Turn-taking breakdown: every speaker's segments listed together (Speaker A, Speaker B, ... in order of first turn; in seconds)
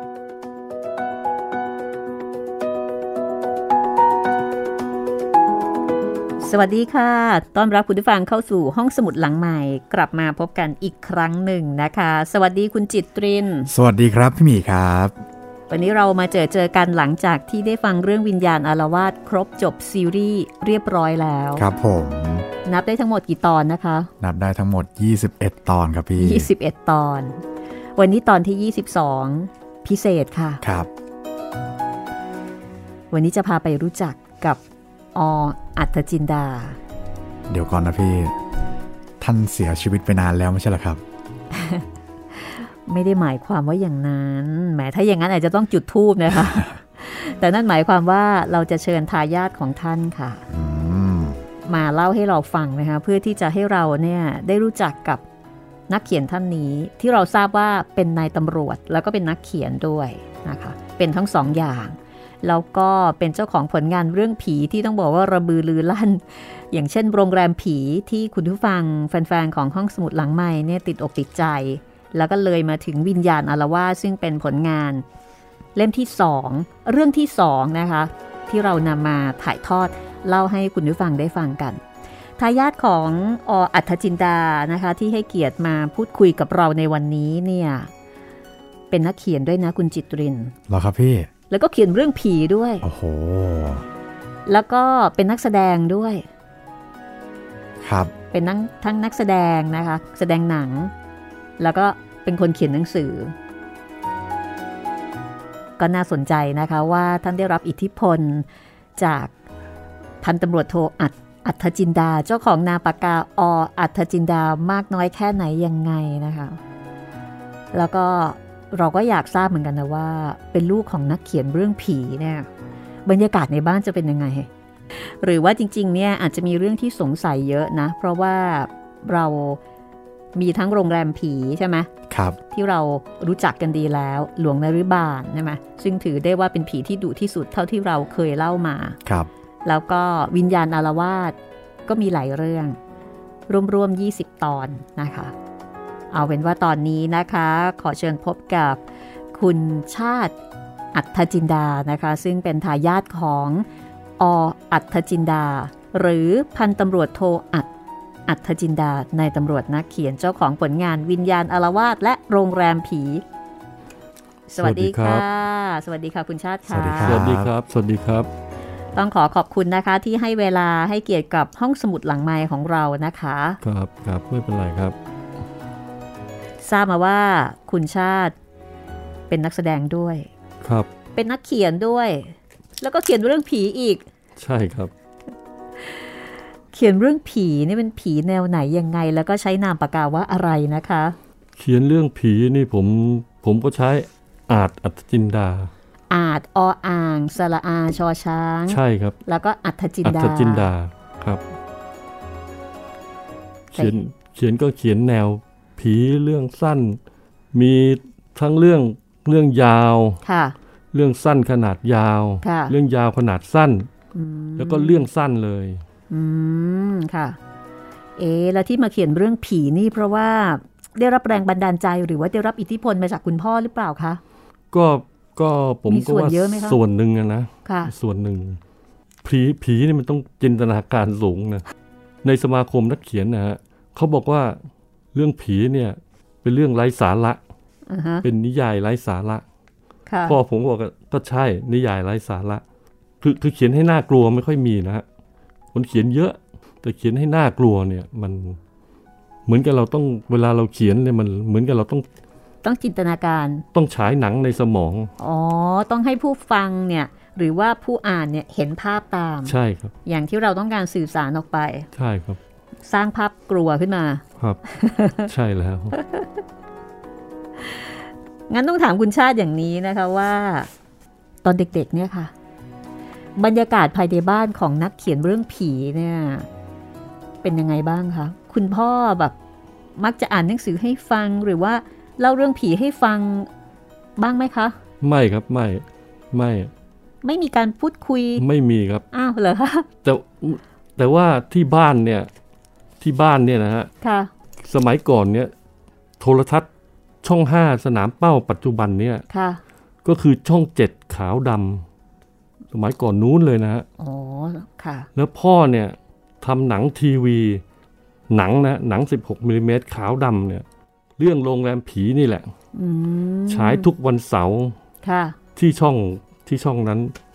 Speaker A: 6.4-13.7, 15.7-21.7, 22.6-24.1, 26.2-27.4, 27.9-30.6, 33.1-34.6, 35.1-36.8, 41.5-50.5, 51.7-55.2, 55.9-75.0, 75.7-81.8, 82.4-87.9, 88.9-90.5, 91.5-92.8, 94.5-96.2, 98.3-100.9, 101.6-103.3, 105.8-108.5, 109.0-109.3, 110.2-116.6, 117.7-122.5, 123.0-129.6, 130.3-131.9, 132.5-139.0, 139.6-141.3, 141.9-142.8, 143.5-145.3, 146.1-148.8, 149.3-150.3, 150.9-153.7, 154.2-157.7, 158.3-163.2, 164.5-167.2, 168.9-173.6, 176.6-178.3, 179.3-180.3, 181.1-184.0, 185.8-186.2, 186.7-191.2, 196.1-200.7, 210.2-210.5, 212.4-212.7, 214.1-215.1, 216.1-217.4, 218.2-224.2, 225.9-226.8, 227.7-227.9, 237.9-238.2, 240.1-240.4, 252.6-253.6, 255.2-259.5, 260.1-261.9, 262.9-265.3, 265.9-266.4, 267.6-267.9, 268.5-270.7, 271.4-272.3, 273.4-276.5, 277.4-279.3, 280.0-283.5, 284.2-284.7, 287.2-288.4, 289.1-289.9, 294.0-294.3, 299.3-299.6, 304.0-305.1, 312.7-313.9, 315.0-315.4
Speaker B: 13.7-15.1, 21.6-22.4, 24.2-26.5, 30.6-30.9, 37.5-38.3, 39.2-41.0, 46.4-46.7, 50.5-51.4, 90.7-91.3, 92.8-93.8, 97.8-98.1, 132.1-132.4, 166.7-167.5
Speaker C: 164.6-165.2, 167.0-168.3, 173.6-174.9, 180.6-180.9, 184.4-184.9, 191.6-195.7, 198.7-199.2, 200.0-201.4, 203.7-207.0, 207.5-210.2, 210.9-213.9, 214.6-215.8, 224.7-228.6, 229.2-231.6, 232.2-234.6, 235.1-237.4, 238.2-239.4, 240.2-242.6, 243.2-245.0, 245.7-248.6, 249.5-252.0, 253.7-255.1, 259.5-259.9, 261.9-262.4, 265.2-265.9, 285.0-286.7, 288.4-289.0, 290.0-292.3, 293.0-293.9, 294.6-295.5, 296.2-296.7, 297.2-299.2, 300.0-301.8, 302.7-303.9, 305.1-307.6, 308.3-310.6, 311.2-312.5, 313.5-314.7, 315.6-317.1